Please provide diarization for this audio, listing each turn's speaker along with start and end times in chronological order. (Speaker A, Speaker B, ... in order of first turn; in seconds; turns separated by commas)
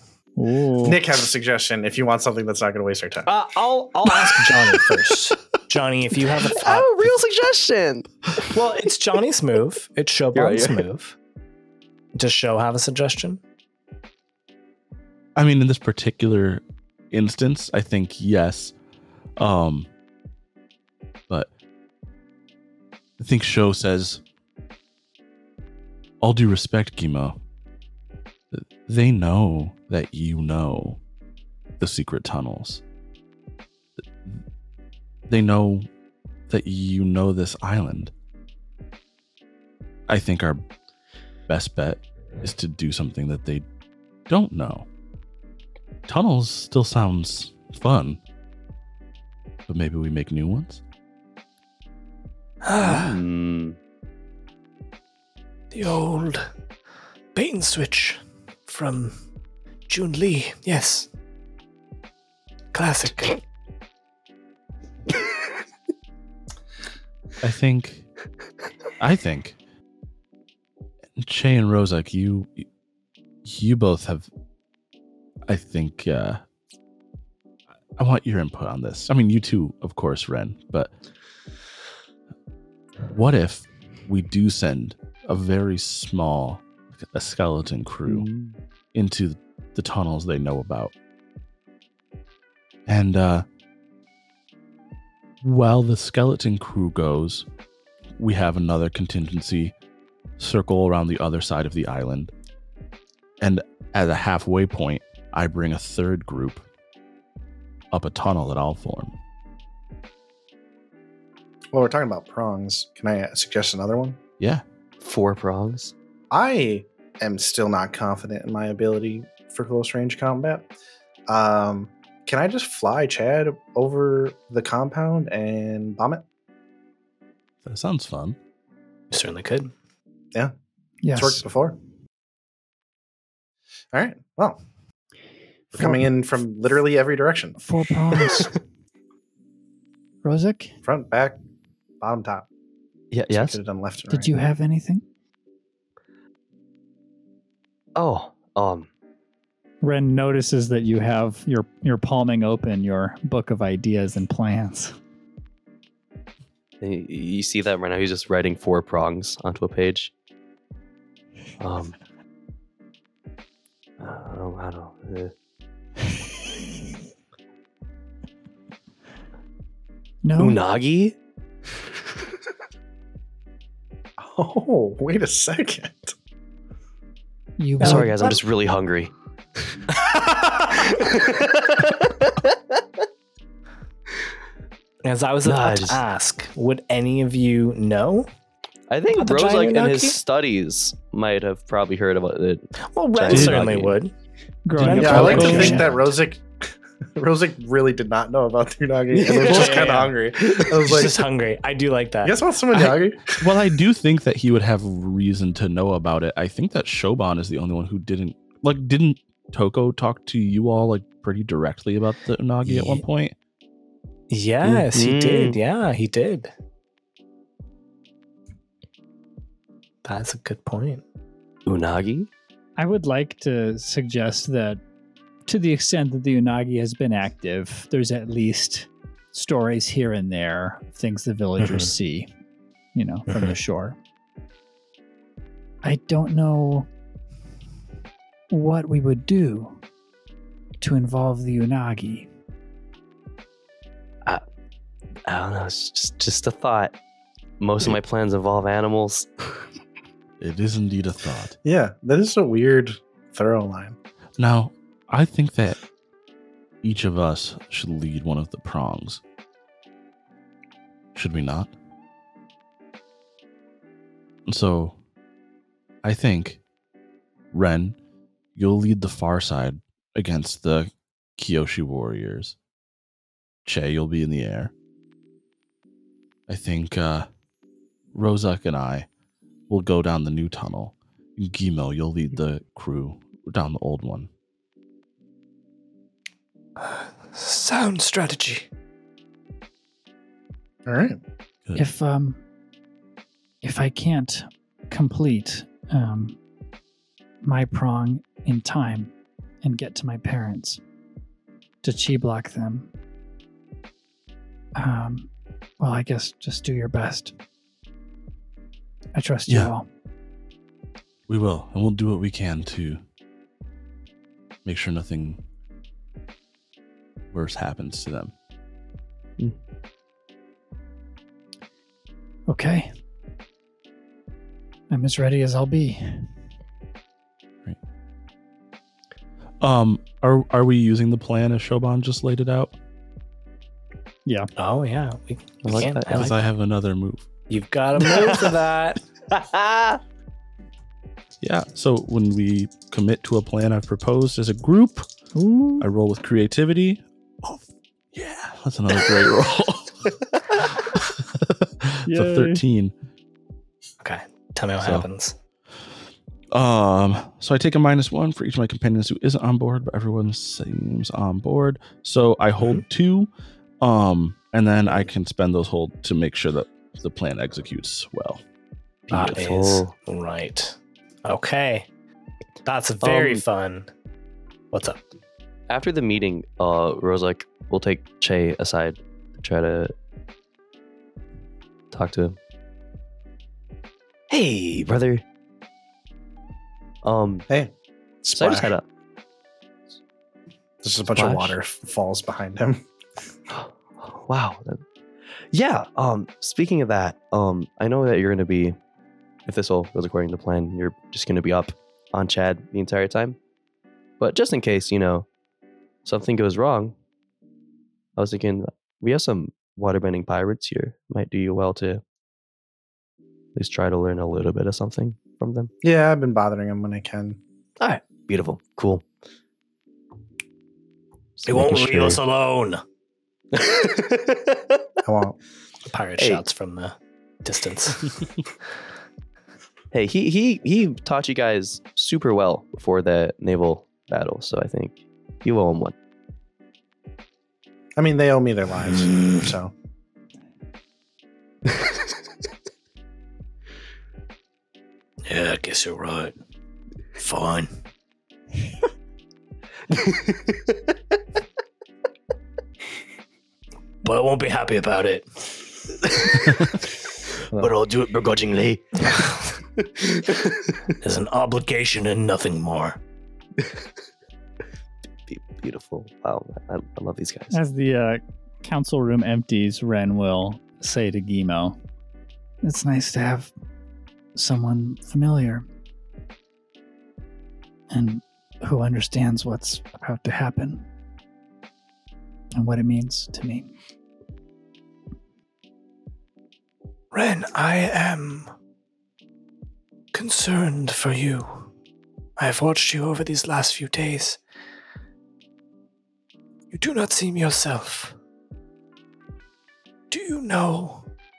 Speaker A: 0.4-1.0, Speaker B: 0.8-3.3, Speaker C: 3.3-7.2, Speaker D: 6.5-8.5, Speaker C: 8.4-11.2, Speaker D: 10.3-10.8, Speaker C: 12.2-13.4, Speaker E: 15.4-18.8, Speaker E: 19.4-19.9, Speaker E: 23.2-24.2, Speaker E: 26.2-27.4, Speaker E: 28.5-31.0, Speaker E: 31.8-32.8, Speaker E: 34.1-34.4, Speaker E: 35.3-35.9, Speaker E: 36.5-38.1, Speaker E: 40.1-40.6, Speaker E: 41.5-43.7, Speaker E: 44.3-44.9, Speaker E: 46.1-48.2, Speaker E: 49.7-50.8, Speaker C: 52.6-53.2, Speaker D: 52.8-53.8, Speaker C: 55.7-56.5, Speaker C: 57.4-59.2, Speaker C: 59.9-61.1, Speaker C: 62.7-63.4, Speaker E: 67.4-68.1, Speaker E: 69.0-69.6, Speaker E: 71.2-72.7, Speaker E: 73.4-74.3, Speaker E: 75.5-76.4, Speaker E: 78.0-80.9, Speaker E: 83.1-88.3, Speaker D: 88.1-88.6, Speaker E: 88.9-90.9, Speaker E: 92.9-93.5, Speaker E: 95.4-97.5, Speaker E: 98.2-99.8, Speaker E: 100.4-102.3, Speaker E: 103.4-106.7, Speaker E: 107.9-109.2, Speaker B: 111.7-114.2, Speaker D: 115.0-115.9, Speaker B: 116.3-120.7, Speaker B: 121.3-126.2, Speaker E: 127.7-128.4, Speaker C: 129.1-129.7, Speaker A: 131.0-131.4, Speaker B: 131.1-131.8, Speaker B: 133.9-134.6, Speaker B: 135.7-137.6, Speaker A: 137.6-138.6, Speaker A: 140.2-140.8, Speaker B: 140.8-141.4, Speaker B: 142.0-142.5, Speaker D: 143.1-143.6, Speaker B: 143.3-144.3, Speaker A: 144.1-145.1, Speaker D: 148.0-148.9, Speaker A: 149.8-155.0, Speaker D: 156.8-160.1, Speaker D: 161.6-162.0, Speaker D: 164.0-165.3, Speaker A: 170.2-170.6, Speaker D: 170.4-171.2, Speaker B: 174.2-176.2, Speaker A: 177.6-178.3, Speaker D: 177.8-179.1, Speaker D: 179.8-182.6, Speaker C: 185.0-188.3, Speaker D: 185.4-186.0, Speaker D: 188.9-194.0, Speaker C: 189.1-190.2, Speaker C: 192.8-194.1, Speaker E: 193.3-193.8, Speaker A: 194.7-195.9, Speaker E: 194.8-195.9, Speaker C: 194.8-195.9, Speaker B: 195.0-201.2, Speaker D: 199.1-200.9, Speaker C: 199.4-200.2, Speaker C: 200.7-202.4, Speaker B: 202.2-203.6, Speaker E: 202.7-213.3, Speaker C: 212.7-213.0, Speaker C: 214.3-216.5, Speaker D: 214.6-215.6, Speaker C: 220.0-221.0, Speaker D: 221.7-222.3, Speaker A: 222.8-224.8, Speaker A: 225.5-232.3, Speaker C: 231.6-231.9, Speaker A: 232.9-234.0, Speaker C: 233.3-233.6, Speaker A: 235.8-236.9, Speaker A: 238.5-239.8, Speaker A: 240.8-242.3, Speaker D: 245.3-247.0, Speaker D: 247.6-249.5, Speaker E: 250.4-251.6, Speaker B: 251.6-254.0, Speaker E: 254.4-255.8, Speaker E: 256.8-259.2, Speaker E: 261.1-261.7, Speaker E: 264.5-265.0, Speaker E: 266.0-266.6, Speaker E: 267.5-268.0, Speaker E: 268.6-272.6, Speaker E: 273.6-274.7, Speaker E: 276.5-277.3, Speaker E: 278.1-279.1, Speaker E: 279.7-284.3, Speaker C: 286.8-288.7, Speaker B: 290.9-291.2, Speaker A: 291.8-292.4, Speaker A: 293.6-296.4, Speaker A: 297.4-300.8, Speaker A: 301.8-302.9, Speaker A: 304.8-307.4, Speaker A: 309.1-309.9, Speaker E: 309.5-309.7, Speaker E: 311.3-313.0, Speaker E: 314.6-315.4, Speaker E: 317.3-318.3, Speaker A: 322.5-323.0, Speaker A: 324.9-326.3, Speaker E: 329.6-332.8, Speaker A: 334.3-334.5, Speaker C: 334.6-336.4, Speaker D: 335.6-336.4, Speaker E: 336.1-337.3, Speaker C: 337.5-339.0, Speaker D: 338.1-338.4, Speaker D: 339.3-340.0, Speaker E: 341.4-345.1, Speaker A: 345.4-345.9, Speaker E: 345.8-347.6, Speaker E: 348.1-352.9, Speaker A: 352.1-352.6, Speaker C: 354.0-355.4, Speaker E: 354.8-355.1, Speaker E: 356.5-363.3, Speaker E: 363.8-368.4, Speaker D: 369.1-369.9, Speaker C: 369.1-371.9, Speaker C: 372.6-373.9, Speaker D: 373.0-373.4, Speaker C: 374.7-375.1, Speaker D: 375.7-379.9, Speaker D: 381.9-382.4, Speaker D: 384.3-385.2, Speaker D: 387.0-387.5, Speaker B: 388.2-388.8, Speaker D: 388.3-388.9, Speaker B: 390.8-392.9, Speaker D: 391.1-391.6, Speaker D: 393.5-394.8, Speaker D: 395.5-398.8, Speaker D: 399.5-403.4, Speaker D: 404.2-405.3, Speaker D: 406.1-407.0, Speaker D: 408.2-412.0, Speaker D: 413.6-415.7, Speaker B: 415.8-417.4, Speaker D: 417.8-419.0, Speaker D: 421.4-422.2, Speaker C: 421.5-422.8, Speaker D: 423.5-424.8, Speaker B: 425.1-425.4, Speaker C: 425.9-428.2, Speaker D: 429.9-435.9, Speaker B: 438.0-439.7, Speaker C: 445.2-446.4, Speaker C: 447.2-447.7, Speaker D: 450.0-450.4, Speaker C: 454.0-455.4, Speaker D: 457.6-460.5, Speaker C: 461.0-463.0, Speaker D: 465.3-467.5, Speaker A: 467.5-471.8, Speaker A: 472.6-473.5, Speaker A: 474.4-475.7, Speaker A: 477.9-480.9, Speaker A: 482.6-483.7, Speaker C: 487.1-488.5, Speaker C: 490.1-491.7, Speaker C: 492.4-494.4, Speaker C: 496.7-498.2, Speaker C: 500.1-501.1